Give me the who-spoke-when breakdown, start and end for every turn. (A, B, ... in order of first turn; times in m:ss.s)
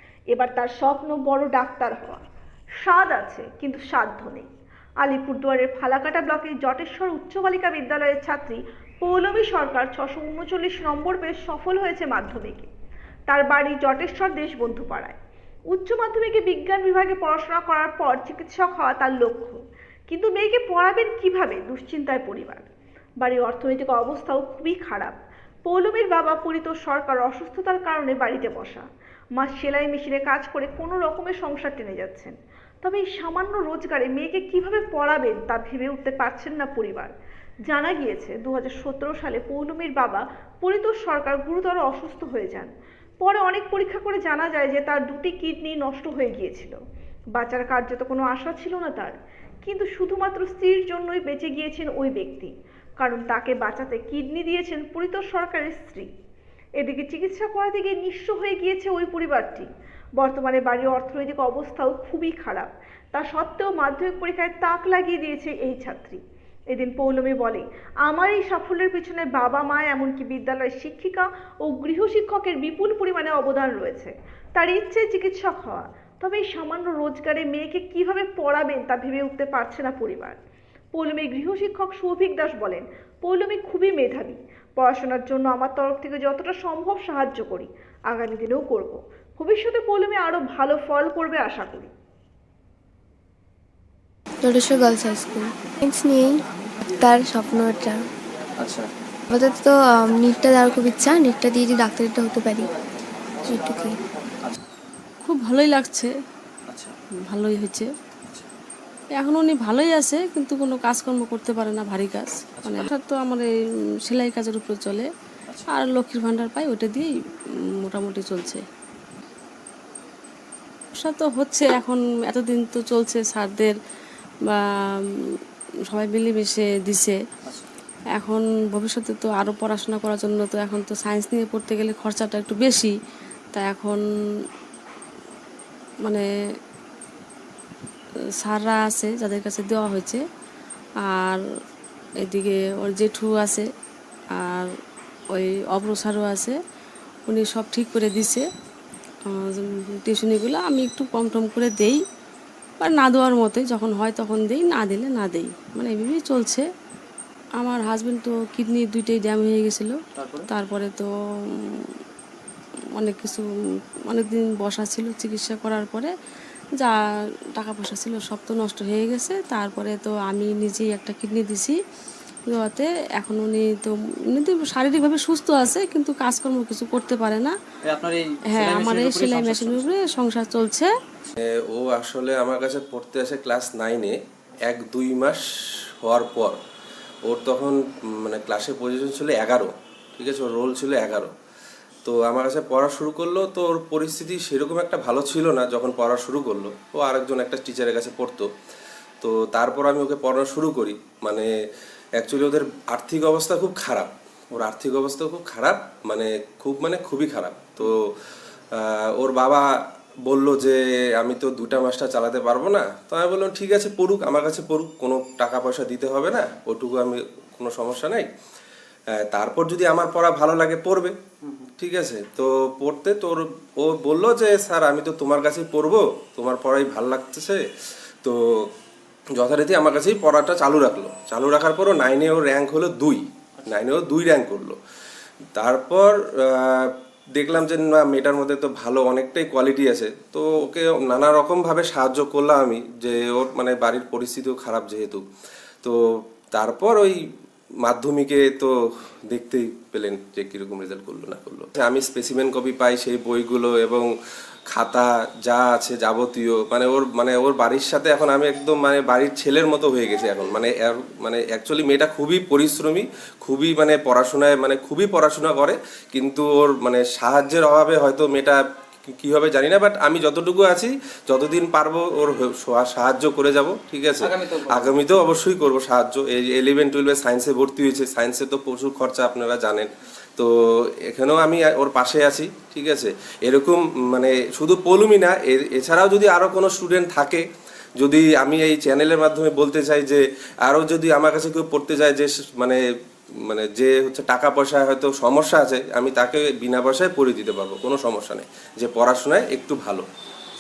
0:00.3-0:02.2 A
0:02.8-0:04.5 A
0:05.0-0:12.7 A
0:13.3-0:15.2 A
0:15.7-0:19.6 A
0:20.1-0:28.9 A
0:29.4-0:37.1 A
0:37.7-0:46.8 A
0:47.4-0:56.1 A
0:56.8-1:06.2 A
1:06.7-1:20.4 A
1:20.9-1:31.9 A
1:34.4-1:36.4 B
1:37.0-1:38.1 B
1:38.6-1:38.9 C
1:39.3-1:42.7 B
1:43.4-1:44.0 B
1:45.2-1:46.1 D
1:46.7-1:47.0 C
1:47.3-1:47.9 D
1:49.2-1:53.5 D
1:52.6-1:52.9 C
1:54.1-1:55.1 D
1:55.7-1:57.1 D
1:57.9-1:58.6 D
2:01.0-2:03.8 D
2:04.5-2:05.4 D
2:05.9-2:07.2 D
2:07.4-2:07.7 C
2:08.2-2:12.9 D
2:13.5-2:14.0 D
2:18.4-2:20.2 D
2:21.1-2:21.4 D
2:22.2-2:23.7 D
2:24.4-2:24.7 D
2:25.3-2:26.6 D
2:27.3-2:28.5 D
2:29.3-2:32.0 D
2:32.8-2:36.6 D
2:37.6-2:40.0 D
2:40.1-2:40.5 C
2:40.5-2:41.9 D
2:43.0-2:43.5 D
2:44.1-2:46.1 D
2:47.6-2:51.8 D
2:52.5-2:57.6 D
2:57.9-3:00.0 C
2:58.5-3:00.9 D
3:01.4-3:05.4 E
3:06.0-3:06.6 E
3:07.3-3:11.3 E
3:12.0-3:18.5 E
3:19.2-3:21.5 E
3:22.2-3:28.1 E
3:28.7-3:38.3 E
3:39.2-3:41.2 E
3:41.8-3:47.6 E
3:48.2-3:48.7 E
3:49.4-3:54.8 E
3:55.6-4:05.2 E
4:06.5-4:07.2 E
4:07.8-4:08.7 E
4:09.3-4:14.1 E
4:14.7-4:40.5 E
4:34.2-4:35.0 C
4:41.0-4:47.4 E
4:48.0-4:52.8 E
4:53.4-5:00.1 E